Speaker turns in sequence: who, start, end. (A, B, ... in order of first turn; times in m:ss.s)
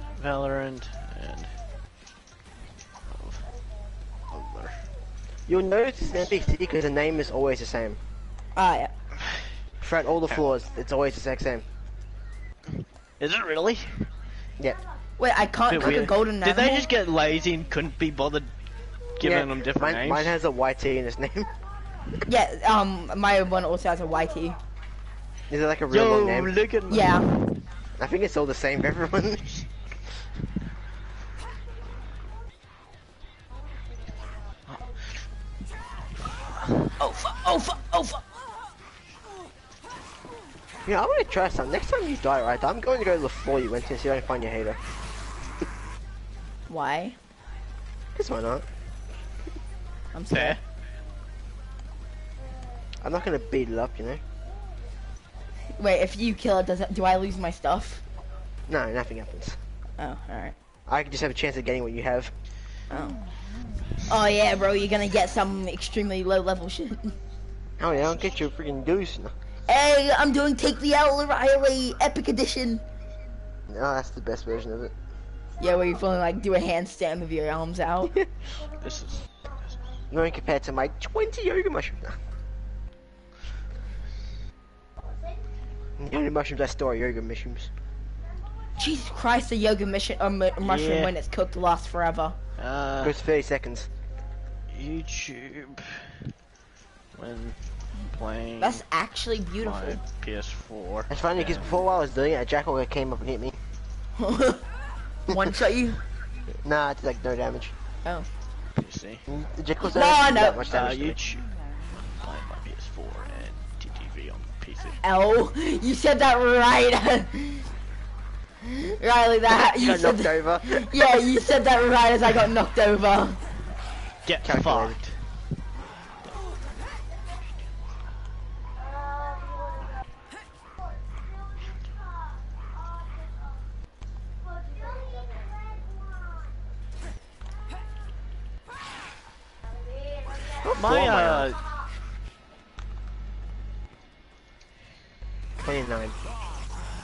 0:00.1-0:01.5 A
0:03.1-0:03.4 A
0:04.3-0:04.8 A
0:05.5-0:08.0 B
0:08.6-0:08.9 C
0:09.2-0:09.4 A
0:09.8-0:11.6 B
0:13.2-0:14.1 A
0:15.2-0:16.9 C
0:15.7-0:18.5 A
0:19.2-0:20.3 A
0:19.2-0:21.5 B
0:22.3-0:24.6 C
0:25.5-0:26.5 B
0:25.9-0:27.4 A
0:26.9-0:27.4 C
0:28.0-0:29.6 B
0:37.0-0:38.2 C
0:40.8-0:44.8 B
0:46.7-0:47.2 C
0:48.1-0:48.6 B
0:50.1-0:50.6 C
0:50.3-0:50.6 A
0:53.0-0:54.2 B
0:55.8-0:58.0 C
0:58.7-0:59.6 B
1:00.0-1:00.5 C
1:00.9-1:02.3 B
1:02.9-1:03.2 C
1:04.0-1:07.2 C
1:07.8-1:09.3 B
1:09.7-1:12.8 C
1:13.7-1:14.9 B
1:15.6-1:18.1 C
1:18.8-1:19.8 A
1:20.1-1:22.2 B
1:26.0-1:27.7 B
1:28.8-1:32.4 C
1:30.6-1:31.1 A
1:32.6-1:33.2 A
1:33.0-1:33.9 B
1:34.7-1:36.3 A
1:37.1-1:38.8 A
1:38.6-1:40.0 C
1:39.6-1:41.8 A
1:41.1-1:43.6 B
1:44.2-1:44.6 C
1:45.3-1:46.0 C
1:46.6-1:47.7 B
1:48.8-1:49.2 A
1:49.3-1:51.2 B
1:49.8-1:50.6 C
1:50.6-1:55.0 A
1:55.0-1:57.7 C
1:58.7-2:03.4 C
1:59.5-2:01.1 B
2:04.2-2:05.2 A
2:04.4-2:05.0 B
2:20.4-2:21.6 B
2:20.7-2:21.7 A
2:25.6-2:26.1 B